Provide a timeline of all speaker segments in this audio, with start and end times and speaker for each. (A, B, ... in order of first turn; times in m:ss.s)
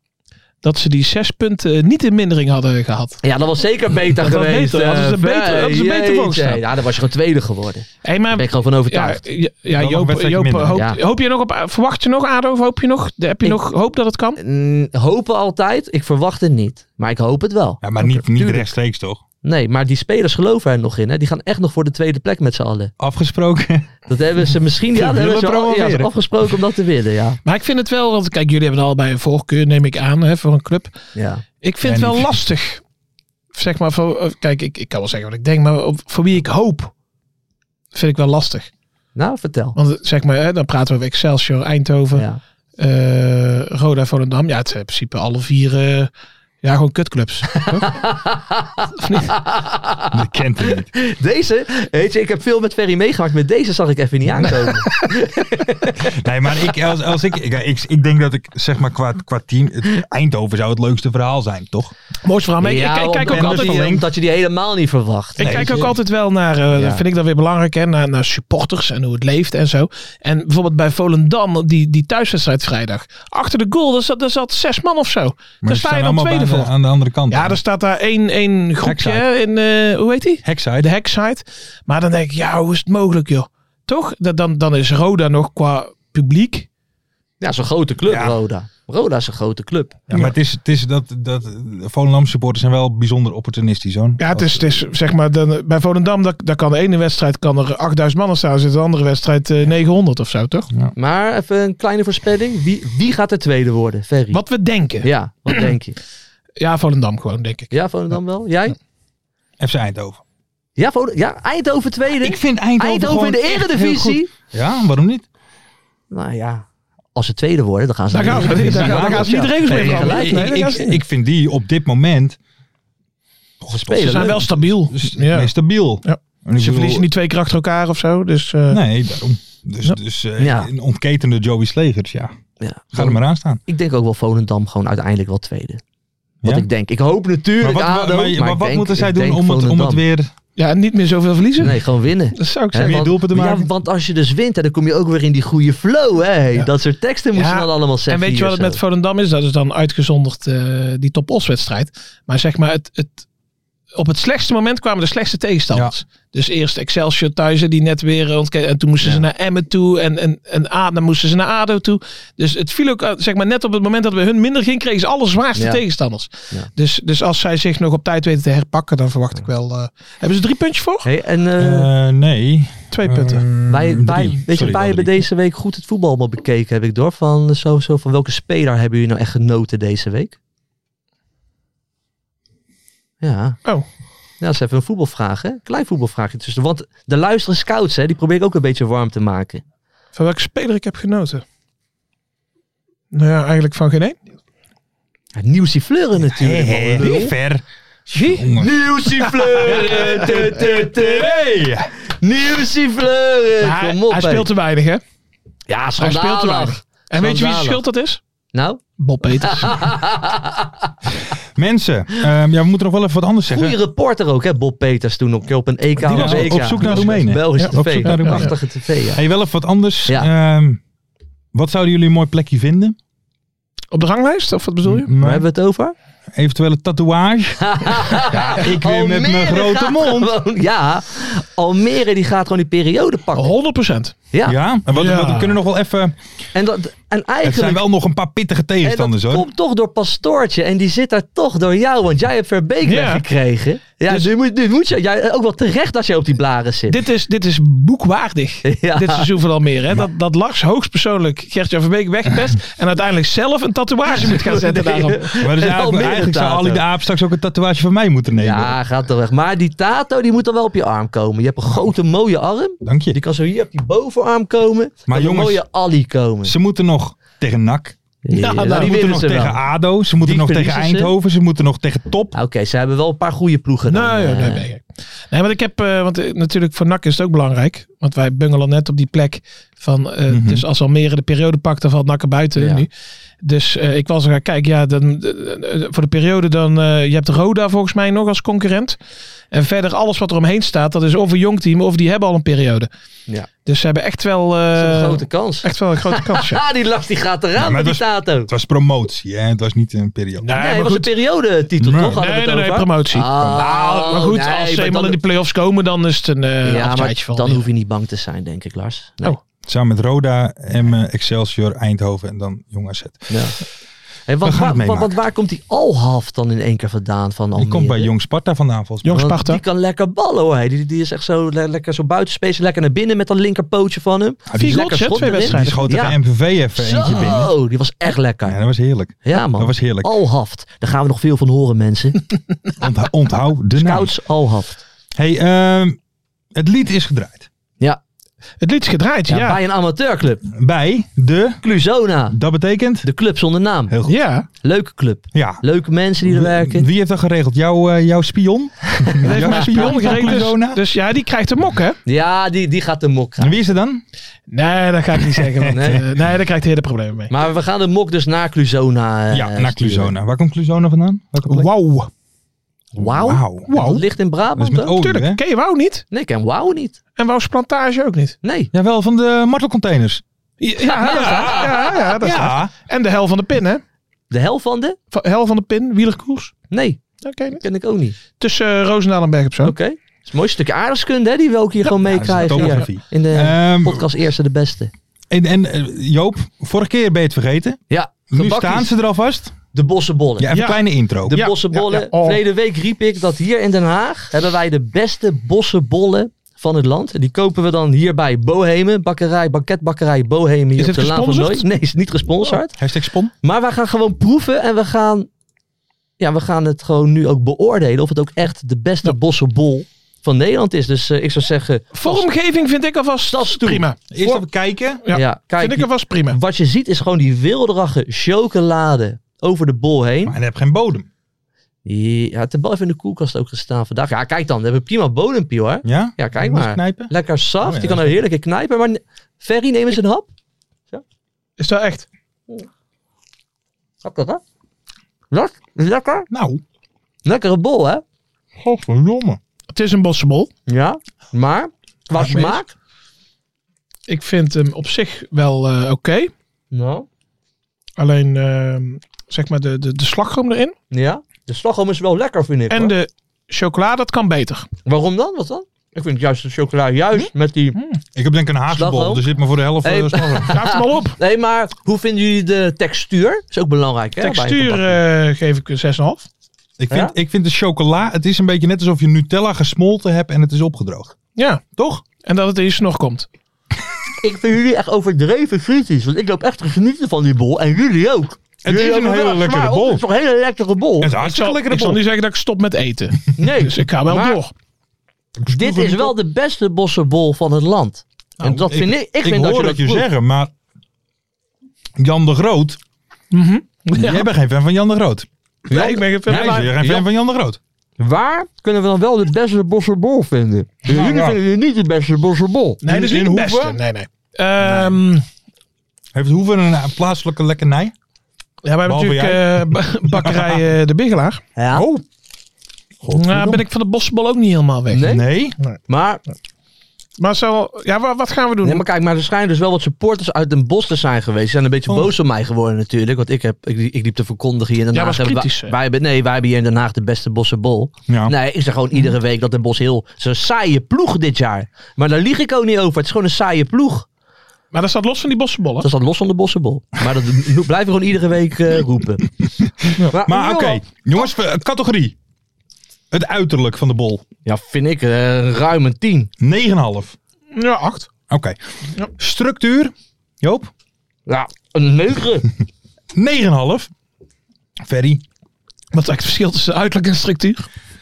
0:00.6-0:03.2 A
0:03.2-0:09.2 B
0:04.2-0:06.6 A
0:08.0-0:14.4 A
0:09.7-0:10.8 C
0:10.7-0:11.0 B
0:14.4-0:18.7 B
0:17.8-0:19.2 C
0:19.4-0:22.9 B
0:23.0-0:23.9 C
0:24.1-0:27.4 B
0:24.9-0:26.1 C
0:27.4-0:30.9 A
0:31.2-0:31.4 B
0:31.6-0:32.8 A
0:31.8-0:32.4 C
0:33.5-0:36.9 A
0:37.9-0:38.7 A
0:39.2-0:39.8 B
0:39.8-0:42.2 A
0:42.1-0:42.4 B
0:42.8-0:46.1 A
0:46.6-0:48.0 A
0:47.8-0:50.0 B
0:49.0-0:49.3 A
0:50.1-0:50.9 C
0:50.7-0:56.0 B
0:54.4-0:54.8 C
0:56.1-1:01.9 C
1:02.2-1:03.9 A
1:02.6-1:05.9 B
1:03.3-1:04.1 C
1:05.4-1:16.7 A
1:05.4-1:05.9 C
1:06.7-1:07.0 B
1:15.6-1:17.6 C
1:17.3-1:26.7 A
1:18.8-1:19.2 C
1:20.4-1:20.9 C
1:27.4-1:30.0 B
1:28.1-1:28.4 C
1:30.1-1:34.8 C
1:34.2-1:40.7 A
1:41.0-1:44.4 B
1:44.3-1:45.7 A
1:45.0-1:46.0 B
1:46.6-1:47.7 A
1:47.7-1:48.8 B
1:49.6-1:50.2 C
1:50.8-1:54.3 B
1:52.2-1:55.3 C
1:56.1-2:00.5 B
1:58.1-2:01.0 A
1:58.3-2:02.4 C
2:03.6-2:07.1 C
2:03.7-2:04.4 B
2:04.0-2:05.5 A
2:06.0-2:08.8 A
2:08.7-2:12.4 C
2:10.4-2:10.7 B
2:12.6-2:15.8 B
2:12.9-2:13.6 C
2:16.4-2:20.0 B
2:17.6-2:20.3 C
2:20.6-2:23.1 A
2:21.6-2:28.8 B
2:22.8-2:23.7 C
2:27.4-2:33.2 A
2:34.0-2:51.1 A
2:45.6-2:45.8 B
2:51.0-2:51.9 B
2:51.6-2:55.2 C
2:52.9-2:53.4 A
2:53.7-3:00.4 B
3:03.2-3:03.7 B
3:04.4-3:09.6 B
3:10.2-3:11.4 A
3:13.1-3:14.2 A
3:15.4-3:17.3 B
3:16.3-3:18.8 C
3:18.1-3:18.4 A
3:18.6-3:21.4 B
3:19.6-3:21.9 C
3:22.2-3:24.5 B
3:23.6-3:25.0 A
3:25.7-3:27.8 B
3:26.0-3:28.2 A
3:28.5-3:28.8 B
3:29.0-3:29.9 A
3:29.4-3:30.9 B
3:31.6-3:33.8 C
3:33.5-3:39.2 B
3:36.0-3:38.5 A
3:36.1-3:38.6 C
3:39.1-3:40.8 C
3:41.5-3:43.0 C
3:43.9-3:45.1 A
3:44.8-3:45.4 C
3:45.2-3:46.0 B
3:46.4-3:50.3 C
3:47.6-3:53.5 B
3:53.4-3:54.2 A
3:54.3-3:54.6 B
3:54.4-3:56.2 C
3:54.9-3:55.6 A
3:56.6-3:57.8 B
3:57.4-3:59.5 C
3:58.8-4:07.0 B
4:02.8-4:03.2 A
4:06.9-4:15.3 A
4:08.6-4:09.3 B
4:14.1-4:16.8 B
4:15.4-4:18.8 C
4:18.4-4:26.5 B
4:22.8-4:23.2 C
4:25.1-4:25.6 C
4:26.4-4:28.0 C
4:28.2-4:29.6 B
4:28.3-4:29.0 A
4:28.6-4:32.3 C
4:30.2-4:31.1 B
4:32.3-4:34.7 B
4:33.9-4:42.9 A
4:40.3-4:40.7 C
4:42.6-4:42.9 B
4:43.4-4:49.0 A
4:49.5-4:52.9 A
4:53.6-4:56.6 A
4:54.7-4:58.5 B
4:57.6-5:00.5 C
5:00.4-5:01.1 A
5:00.5-5:05.2 B
5:01.8-5:02.2 C
5:02.2-5:07.7 A
5:06.6-5:09.4 B
5:09.7-5:13.3 C
5:13.3-5:13.6 B
5:14.3-5:18.1 B
5:14.4-5:15.2 C
5:17.6-5:19.2 C
5:19.0-5:19.6 A
5:19.2-5:26.2 B
5:24.5-5:27.5 C
5:24.6-5:26.1 A
5:26.8-5:28.6 B
5:28.4-5:30.1 C
5:29.2-5:32.2 B
5:32.8-5:34.1 C
5:33.8-5:34.8 B
5:35.2-5:36.0 C
5:36.6-5:37.5 C
5:38.6-5:39.6 A
5:39.3-5:40.4 B
5:40.5-5:41.6 C
5:41.6-5:42.4 B
5:42.3-5:43.1 C
5:43.0-5:43.9 B
5:43.9-5:44.2 C
5:44.1-5:44.5 A
5:44.6-5:46.9 B
5:45.3-5:45.6 C
5:46.2-5:50.8 C
5:49.0-5:50.0 B
5:49.2-5:52.0 A
5:52.1-5:53.7 B
5:53.4-5:54.0 C
5:54.5-5:57.3 A
5:55.7-5:56.0 B
5:57.3-6:00.1 B
5:59.3-6:01.7 C
6:01.5-6:02.1 A
6:02.9-6:05.0 B
6:03.0-6:03.7 C
6:03.7-6:04.0 A
6:04.6-6:05.4 C
6:05.0-6:06.0 A
6:06.1-6:07.0 B
6:07.2-6:08.4 A
6:08.4-6:08.7 B
6:08.7-6:10.2 C
6:10.6-6:13.8 A
6:10.8-6:12.0 B
6:11.0-6:12.7 C
6:14.3-6:15.0 B
6:15.1-6:16.6 A
6:16.7-6:17.0 B
6:17.2-6:17.6 A
6:17.6-6:18.2 B
6:18.4-6:19.8 A
6:19.6-6:24.9 B
6:22.0-6:24.1 C
6:22.5-6:22.8 A
6:25.3-6:27.8 C
6:27.9-6:28.9 B
6:28.3-6:29.6 C
6:29.7-6:30.5 B
6:30.4-6:31.4 C
6:30.5-6:32.4 A
6:31.3-6:42.8 B
6:40.8-6:41.7 A
6:42.8-6:43.3 C
6:43.4-6:45.3 B
6:46.2-6:52.3 B
6:52.0-6:54.0 A
6:53.3-6:54.4 B
6:54.1-6:55.0 C
6:55.1-6:56.4 A
6:55.1-7:00.3 B
7:00.2-7:01.1 C
7:01.8-7:10.3 B
7:05.8-7:08.2 C
7:11.6-7:12.1 A
7:14.0-7:14.4 B
7:15.3-7:16.3 B
7:16.3-7:16.6 C
7:17.2-7:18.0 B
7:18.6-7:19.4 C
7:19.7-7:20.5 A
7:20.7-7:22.7 B
7:22.2-7:22.6 C
7:24.1-7:26.3 A
7:26.7-7:27.1 B
7:28.0-7:30.8 A
7:30.9-7:32.9 B
7:32.7-7:34.7 A
7:34.9-7:37.8 B
7:38.2-7:40.5 C
7:38.7-7:39.2 B
7:39.8-7:45.0 B
7:40.5-7:41.2 A
7:44.2-7:46.3 A
7:46.8-7:51.2 C
7:51.4-7:51.6 A
7:51.8-7:52.0 C
7:52.2-7:53.3 A
7:54.2-8:01.1 B
7:58.6-8:00.0 C
8:01.0-8:02.0 C
8:01.2-8:04.5 A
8:03.4-8:04.4 B
8:05.4-8:06.1 C
8:05.5-8:10.0 B
8:08.4-8:10.5 C
8:12.0-8:12.8 C
8:13.3-8:14.3 A
8:13.9-8:15.3 C
8:15.7-8:16.7 A
8:15.7-8:17.0 B
8:16.3-8:17.6 C
8:18.0-8:22.8 B
8:20.9-8:21.4 C
8:22.8-8:25.2 A
8:22.9-8:23.8 C
8:26.1-8:27.9 C
8:28.6-8:31.4 A
8:28.8-8:30.6 C
8:31.6-8:31.9 B
8:31.7-8:32.0 C
8:33.0-8:33.6 C
8:33.1-8:35.0 A
8:34.9-8:35.2 B
8:35.0-8:35.6 C
8:35.9-8:36.2 B
8:37.2-8:38.8 A
8:38.6-8:54.1 B
8:41.9-8:42.1 C
8:44.9-8:45.8 A
8:48.1-8:48.3 C
8:54.7-8:55.9 A
8:55.8-8:59.3 B
8:59.6-9:02.2 C
9:00.1-9:00.8 B
9:03.1-9:04.2 C
9:04.4-9:06.3 B
9:06.4-9:07.2 C
9:07.6-9:08.1 A
9:08.3-9:08.6 C
9:09.2-9:10.7 C
9:11.3-9:12.5 B
9:13.2-9:13.9 C
9:14.8-9:15.2 C
9:15.9-9:17.7 A